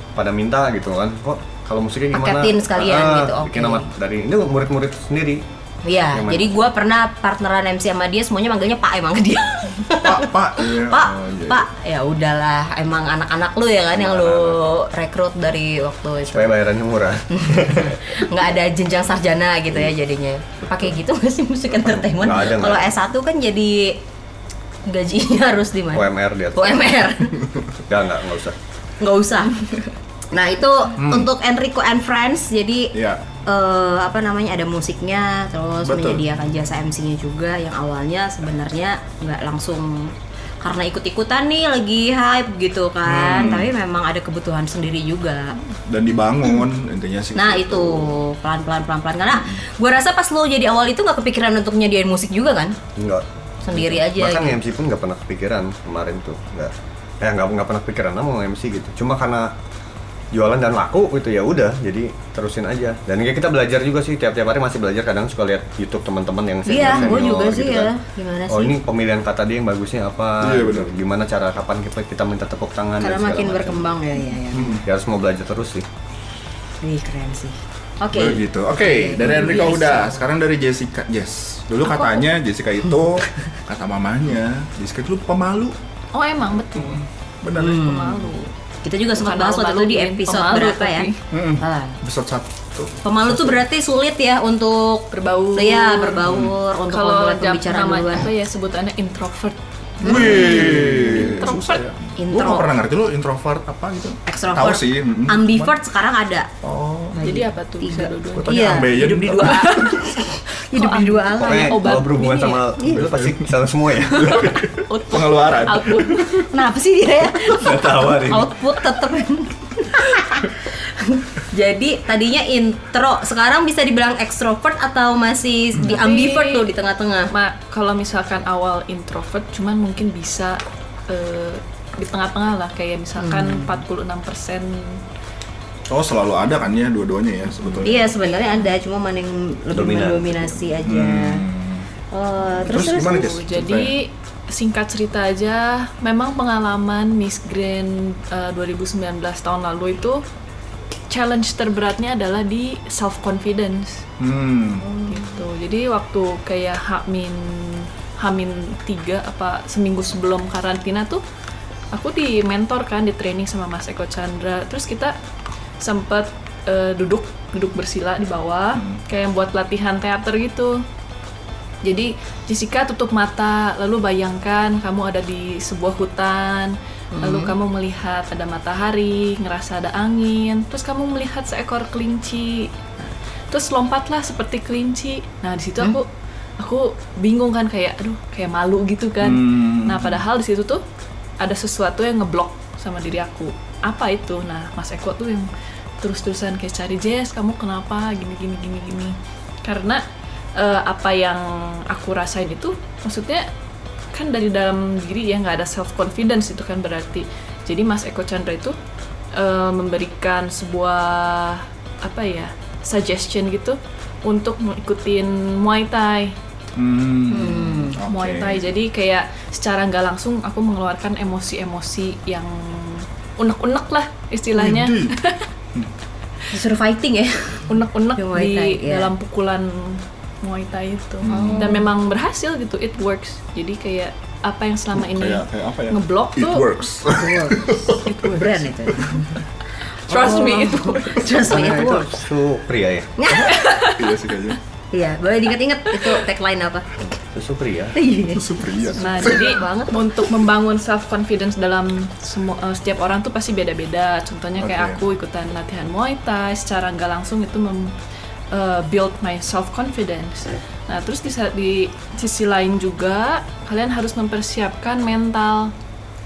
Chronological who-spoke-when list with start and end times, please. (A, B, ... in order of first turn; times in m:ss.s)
0:00.1-0:05.4 A
0:02.1-0:03.9 B
0:05.8-0:16.5 B
0:06.1-0:06.7 A
0:10.0-0:11.6 C
0:13.9-0:14.8 A
0:16.3-0:18.2 A
0:17.3-0:24.0 B
0:22.1-0:22.9 A
0:24.8-0:27.4 B
0:25.9-0:27.1 A
0:27.9-0:28.6 A
0:29.0-0:32.9 B
0:31.0-0:31.3 C
0:32.9-0:33.2 C
0:33.4-0:45.6 B
0:35.8-0:36.2 C
0:43.0-0:43.7 C
0:45.9-0:48.2 C
0:47.3-0:52.8 B
0:49.3-0:49.6 C
0:53.0-0:59.5 A
0:53.6-0:54.6 B
1:00.3-1:07.9 A
1:06.6-1:08.8 B
1:08.5-1:13.8 A
1:10.4-1:10.9 C
1:13.0-1:14.7 B
1:14.5-1:14.8 C
1:14.5-1:15.8 A
1:16.8-1:20.2 B
1:18.1-1:25.8 C
1:19.2-1:19.6 D
1:21.8-1:22.2 D
1:26.1-1:28.5 D
1:26.7-1:27.9 C
1:27.5-1:28.3 B
1:28.8-1:32.0 B
1:29.1-1:31.2 D
1:31.3-1:33.6 C
1:33.0-1:38.3 B
1:35.1-1:36.2 D
1:36.2-1:36.5 C
1:36.9-1:41.9 D
1:40.0-1:41.3 B
1:40.0-1:45.8 C
1:42.2-1:42.7 B
1:44.2-1:46.5 B
1:46.6-1:47.2 C
1:47.1-1:52.0 B
1:47.2-1:52.7 D
1:48.3-1:49.8 C
1:51.4-1:54.5 A
1:52.8-1:53.5 C
1:54.1-1:56.4 C
1:54.1-1:56.5 D
1:56.3-2:07.3 B
1:57.5-1:58.5 A
2:05.8-2:06.7 D
2:07.3-2:15.0 D
2:13.2-2:13.8 B
2:15.9-2:18.1 C
2:17.6-2:17.9 D
2:17.8-2:21.4 B
2:19.7-2:20.7 A
2:20.8-2:21.9 C
2:22.1-2:23.3 B
2:22.6-2:24.0 C
2:22.7-2:30.2 D
2:31.1-2:34.0 D
2:34.2-2:34.8 C
2:34.8-2:35.3 B
2:35.1-2:41.2 D
2:41.9-2:45.2 D
2:45.8-2:50.8 D
2:48.7-2:49.0 C
2:51.8-3:02.7 D
2:57.1-2:57.5 B
3:03.5-3:06.1 D
3:06.6-3:10.8 D
3:09.2-3:10.2 C
3:11.4-3:15.5 D
3:16.0-3:20.0 D
3:20.6-3:23.5 D
3:24.1-3:28.8 D
3:29.3-3:36.4 D
3:36.7-3:38.7 C
3:37.3-3:38.0 B
3:38.0-3:45.5 D
3:44.6-3:45.2 C
3:46.5-3:49.1 B
3:47.7-3:56.7 D
3:51.2-3:51.8 C
3:51.3-3:51.9 B
3:54.9-3:58.3 C
3:57.1-4:02.2 B
3:58.0-3:58.7 D
3:58.9-3:59.2 C
4:00.1-4:01.3 D
4:01.3-4:03.1 A
4:03.2-4:03.6 B
4:03.3-4:04.6 C
4:03.4-4:04.2 D
4:04.9-4:06.9 B
4:07.3-4:08.0 A
4:07.9-4:10.0 B
4:08.3-4:09.6 C
4:09.0-4:18.0 D
4:14.6-4:15.0 C
4:18.5-4:25.7 D